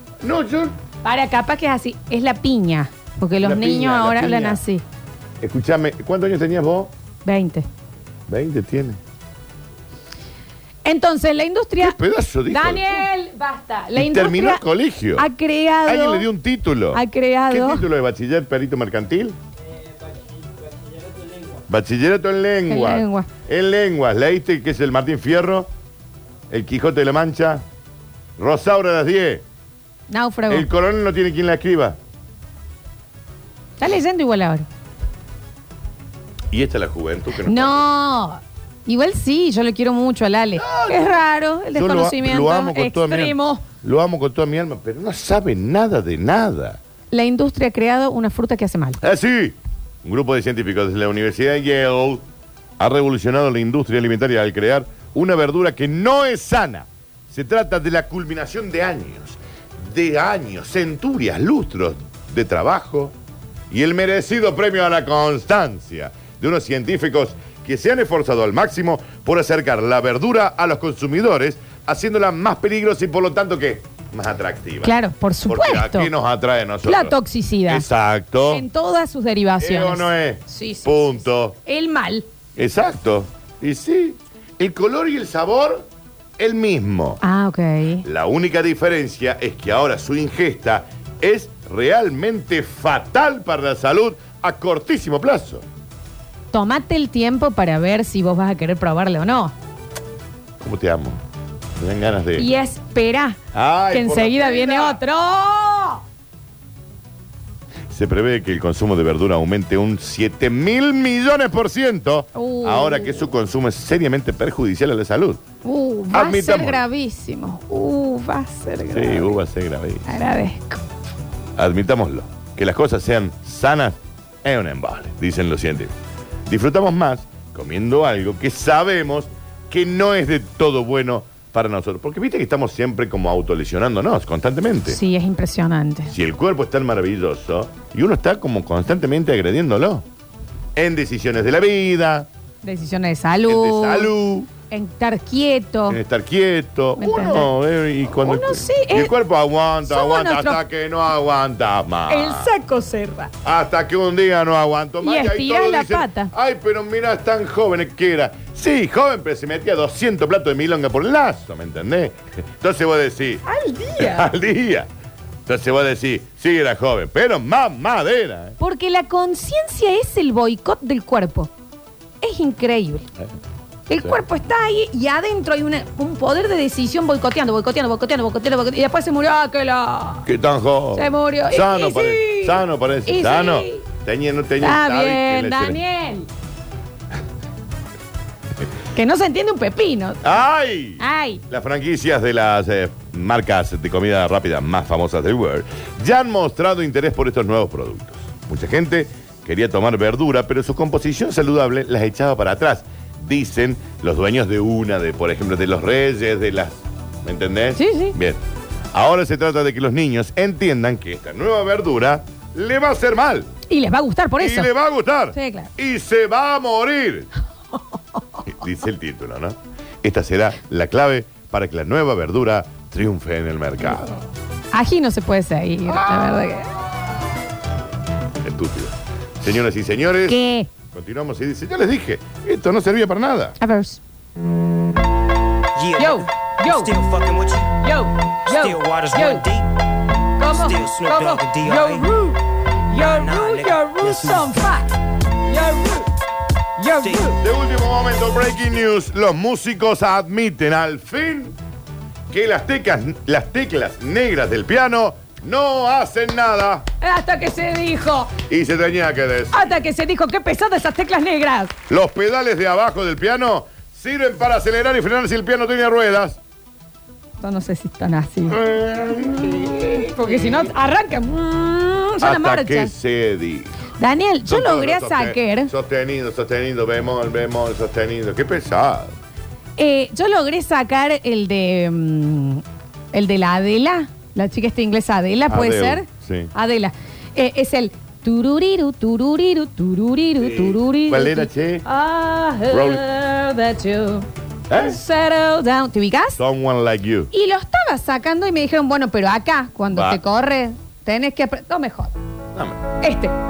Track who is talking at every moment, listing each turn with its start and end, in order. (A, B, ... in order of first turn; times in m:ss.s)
0:00.2-0:00.7 A
0:01.0-0:04.8 B
0:03.4-0:04.6 A
0:05.4-0:06.9 A
0:07.2-0:07.7 B
0:08.3-0:09.0 A
0:10.8-0:12.0 B
0:11.8-0:13.1 A
0:12.5-0:14.6 B
0:14.0-0:15.3 A
0:15.2-0:16.3 B
0:15.8-0:19.4 A
0:16.9-0:17.8 B
0:21.7-0:25.7 A
0:22.7-0:23.3 B
0:26.5-0:27.6 A
0:28.4-0:29.4 A
0:30.1-0:30.7 B
0:30.5-0:32.0 A
0:33.8-0:34.7 B
0:36.5-0:37.8 A
0:37.4-0:43.6 B
0:40.6-0:46.8 A
0:47.1-0:49.0 B
0:49.0-0:52.2 A
0:52.8-1:03.1 A
1:03.7-1:14.9 A
1:14.8-1:16.1 B
1:15.5-1:17.2 A
1:16.8-1:17.8 B
1:17.7-1:18.6 A
1:18.4-1:22.2 B
1:19.6-1:21.6 A
1:22.6-1:25.8 A
1:26.4-1:27.2 A
1:27.2-1:28.0 B
1:28.0-1:35.6 A
1:36.5-1:39.5 B
1:40.6-1:41.2 A
1:41.8-1:42.5 A
1:42.4-1:43.4 B
1:43.5-1:45.0 A
1:43.9-1:46.0 B
1:47.9-1:55.4 A
1:52.3-1:53.3 B
1:55.6-1:59.4 B
1:56.1-1:56.8 A
1:58.9-2:00.1 A
2:00.0-2:00.8 B
2:01.6-2:05.9 A
2:06.5-2:15.0 A
2:14.9-2:16.1 B
2:16.1-2:20.0 A
2:20.8-2:22.3 A
2:22.6-2:24.1 B
2:23.4-2:24.5 A
2:24.7-2:26.0 B
2:25.9-2:32.5 A
2:27.0-2:27.5 B
2:28.2-2:29.1 B
2:29.8-2:30.6 B
2:32.1-2:33.3 B
2:33.4-2:43.4 A
2:35.0-2:36.3 B
2:43.4-2:44.3 B
2:44.0-2:44.9 A
2:45.4-2:48.6 A
2:48.6-2:51.5 B
2:52.2-2:53.1 B
2:53.9-3:00.2 B
3:00.2-3:05.8 A
3:00.9-3:03.8 B
3:04.6-3:06.3 B
3:08.9-3:10.4 B
3:10.2-3:28.4 A
3:11.0-3:11.4 B
3:27.8-3:28.2 B
3:28.9-3:33.5 A
3:33.7-3:34.7 B
3:34.4-3:37.3 A
3:35.3-3:35.7 B
3:38.5-3:44.2 A
3:44.7-3:46.7 B
3:45.8-3:46.6 A
3:48.4-3:50.4 A
3:50.2-3:50.7 B
3:50.9-3:53.6 A
3:53.6-3:54.0 B
3:55.7-3:57.7 C
3:55.9-3:57.0 B
3:57.7-3:59.5 B
3:58.5-3:59.7 C
4:00.4-4:04.9 B
4:00.6-4:02.1 C
4:03.0-4:04.5 C
4:05.5-4:06.1 B
4:06.8-4:07.4 B
4:07.0-4:07.3 C
4:07.3-4:11.6 A
4:12.3-4:16.8 A
4:17.0-4:18.3 B
4:18.5-4:19.7 A
4:19.5-4:21.7 B
4:21.9-4:26.4 A
4:27.4-4:28.7 B
4:28.5-4:30.7 A
4:29.3-4:32.9 B
4:32.2-4:33.8 A
4:34.0-4:35.7 B
4:34.4-4:39.2 A
4:39.8-4:56.4 B
4:45.5-4:46.5 A
4:50.4-4:51.8 A
4:52.7-4:53.0 A
4:54.7-4:55.0 A
4:56.4-4:57.3 A
4:57.3-5:02.1 B
4:59.9-5:00.2 A
5:02.5-5:02.8 A
5:03.0-5:03.4 B